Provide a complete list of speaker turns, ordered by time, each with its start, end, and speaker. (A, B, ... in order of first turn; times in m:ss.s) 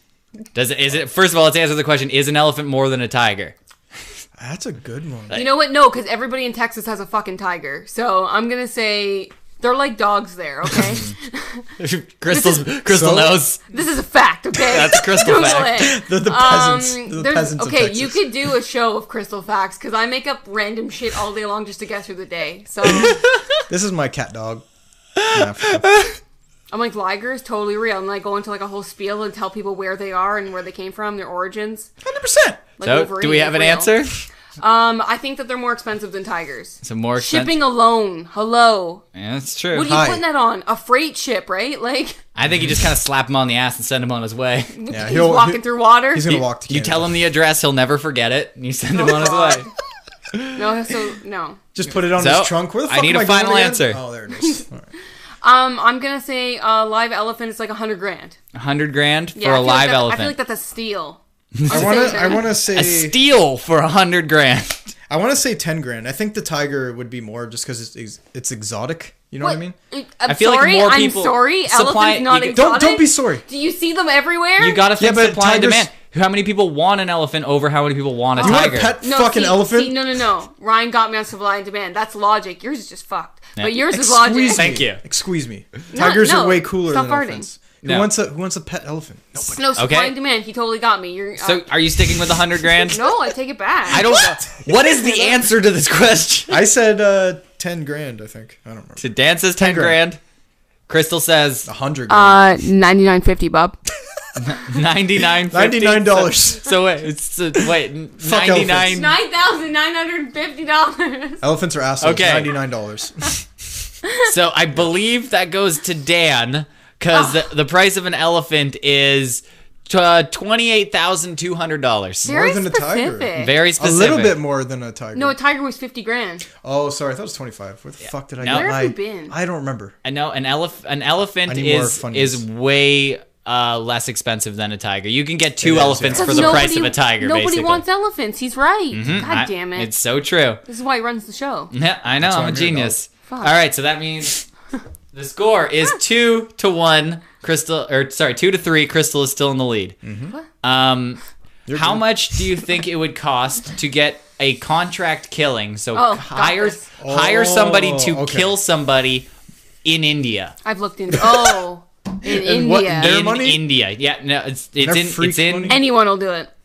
0:00.5-0:03.5 A
0:04.4-0:05.4 B
0:05.3-0:11.7 C
0:10.7-0:11.1 B
0:11.8-0:13.6 A
0:12.3-0:12.7 C
0:12.9-0:13.4 B
0:13.7-0:23.2 C
0:14.6-0:15.9 A
0:15.7-0:18.5 B
0:23.7-0:24.6 B
0:25.2-0:26.2 A
0:25.2-0:25.9 B
0:26.7-0:31.9 C
0:32.0-0:32.6 B
0:32.8-0:33.9 C
0:32.8-0:34.2 A
0:34.6-0:39.0 C
0:36.8-0:37.5 A
0:39.1-0:39.9 A
0:39.7-0:42.2 C
0:39.8-0:40.2 B
0:42.4-0:44.7 A
0:44.7-0:46.4 C
0:44.9-0:47.2 B
0:46.2-0:49.7 A
0:48.9-0:49.7 C
0:50.3-0:50.6 A
0:50.5-0:51.6 C
0:51.7-0:54.9 B
0:52.0-0:54.0 A
0:54.3-0:54.6 C
0:55.4-0:58.4 C
0:58.5-1:00.3 A
0:59.4-1:02.5 C
1:01.6-1:04.9 A
1:01.7-1:03.2 B
1:05.1-1:09.8 B
1:09.4-1:14.9 C
1:10.3-1:12.6 A
1:12.5-1:13.4 B
1:14.6-1:19.0 A
1:15.0-1:15.9 B
1:18.4-1:24.8 C
1:18.4-1:20.0 B
1:23.6-1:25.0 A
1:23.9-1:29.6 B
1:25.9-1:27.5 C
1:27.8-1:28.1 A
1:29.4-1:31.7 C
1:29.7-1:30.1 A
1:31.4-1:33.0 A
1:32.8-1:34.2 C
1:33.9-1:35.4 B
1:33.9-1:36.6 A
1:36.5-1:39.0 B
1:39.0-1:40.2 A
1:39.6-1:40.0 B
1:40.9-1:41.7 A
1:41.6-1:42.4 B
1:42.1-1:43.8 C
1:44.4-1:49.1 A
1:45.2-1:46.7 B
1:48.2-1:49.0 B
1:48.9-1:51.4 C
1:51.4-1:53.4 B
1:52.0-1:52.5 A
1:54.2-2:02.3 A
1:57.1-1:57.5 C
2:02.2-2:05.3 B
2:02.2-2:03.5 C
2:03.4-2:04.4 A
2:05.1-2:06.4 C
2:06.6-2:09.9 B
2:08.4-2:08.7 A
2:08.4-2:09.3 C
2:10.0-2:17.8 A
2:11.5-2:12.4 B
2:15.6-2:16.8 B
2:16.1-2:19.9 C
2:18.9-2:20.6 A
2:20.6-2:21.7 C
2:21.7-2:24.4 A
2:22.2-2:23.0 B
2:23.3-2:23.5 C
2:25.1-2:30.0 A
2:30.0-2:30.3 B
2:30.6-2:31.2 A
2:31.7-2:32.4 B
2:31.7-2:39.3 A
2:35.9-2:36.9 C
2:37.0-2:38.5 B
2:39.8-2:40.5 A
2:40.6-2:43.2 C
2:41.2-2:41.6 B
2:42.2-2:43.6 B
2:43.0-2:45.8 A
2:44.8-2:45.8 B
2:45.7-2:46.5 C